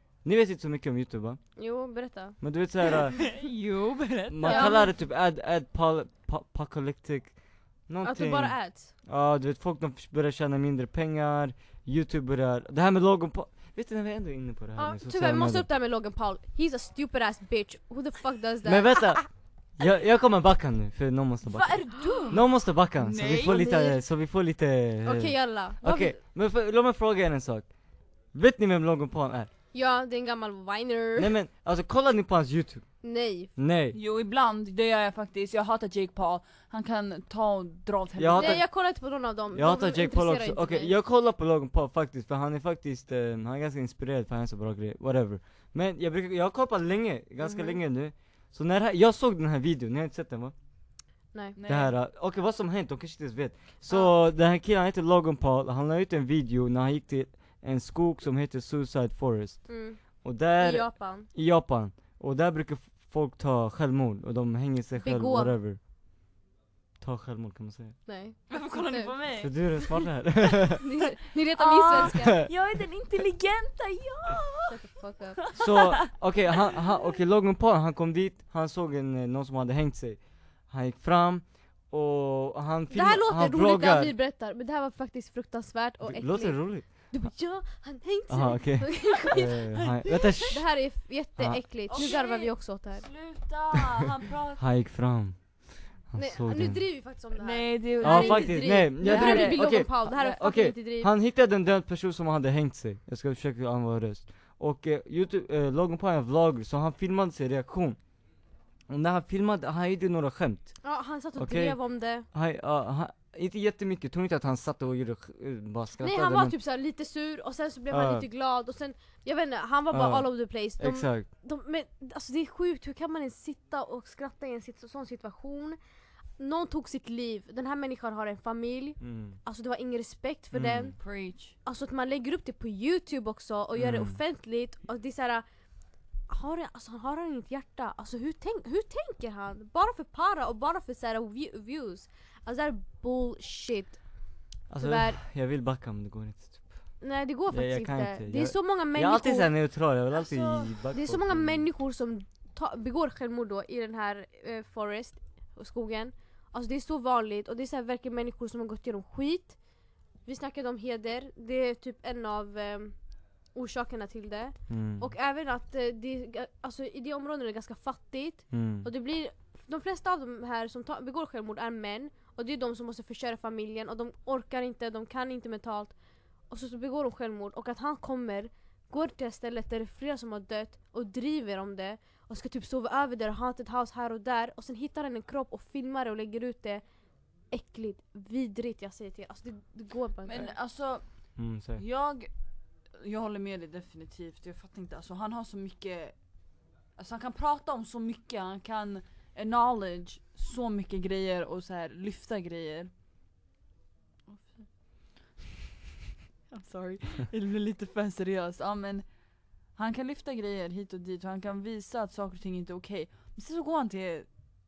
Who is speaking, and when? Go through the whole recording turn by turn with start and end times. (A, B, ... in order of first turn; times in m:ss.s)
0:00.2-0:01.4 A
0:01.6-0:03.0 B
0:02.4-0:03.4 A
0:03.3-0:04.9 C
0:04.3-0:15.6 A
0:04.4-0:04.9 B
0:08.0-0:08.9 B
0:14.8-0:19.2 B
0:18.6-0:29.5 A
0:21.4-0:23.6 C
0:23.4-0:24.0 B
0:25.0-0:26.2 B
0:29.7-0:31.3 B
0:31.2-0:33.0 A
0:33.0-0:33.5 B
0:33.6-0:34.0 A
0:33.9-0:38.6 C
0:38.2-0:38.7 A
0:38.3-0:40.9 B
0:39.5-0:50.5 A
0:47.4-0:47.8 B
0:51.6-0:51.9 C
0:51.7-1:05.8 A
0:59.7-1:01.3 B
1:05.0-1:05.6 B
1:07.0-1:08.0 A
1:08.0-1:09.2 B
1:08.5-1:10.1 C
1:09.4-1:10.8 A
1:10.8-1:12.5 B
1:11.5-1:14.9 C
1:12.0-1:12.5 A
1:14.7-1:15.6 B
1:15.6-1:24.1 A
1:15.6-1:16.1 C
1:22.9-1:29.8 B
1:26.0-1:26.9 A
1:28.3-1:30.6 A
1:29.8-1:30.5 C
1:30.5-1:33.1 B
1:31.4-1:32.1 A
1:31.9-1:34.6 C
1:34.6-1:36.8 A
1:36.1-1:41.1 B
1:37.4-1:40.4 C
1:38.0-1:48.0 A
1:48.9-1:50.8 A
1:50.8-1:52.3 B
1:51.4-1:56.5 A
1:56.0-2:05.8 B
1:57.9-1:58.2 A
1:59.9-2:01.3 A
2:06.4-2:11.0 B
2:09.0-2:09.4 A
2:10.5-2:10.9 A
2:11.0-2:11.5 C
2:11.6-2:15.4 B
2:13.7-2:14.2 A
2:16.3-2:24.0 B
2:24.7-2:27.0 A
2:24.8-2:25.2 B
2:27.0-2:29.5 B
2:27.5-2:31.6 A
2:30.1-2:30.7 C
2:30.9-2:39.6 B
2:40.2-2:43.0 B
2:43.5-2:56.0 B
2:44.7-2:45.1 A
2:48.5-2:48.9 A
2:56.5-3:06.8 B
3:07.5-3:10.5 B
3:10.2-3:12.3 C
3:11.4-3:11.8 A
3:13.0-3:16.2 C
3:17.0-3:22.9 C
3:24.3-3:24.6 C
3:26.5-3:29.2 C
3:29.7-3:34.3 C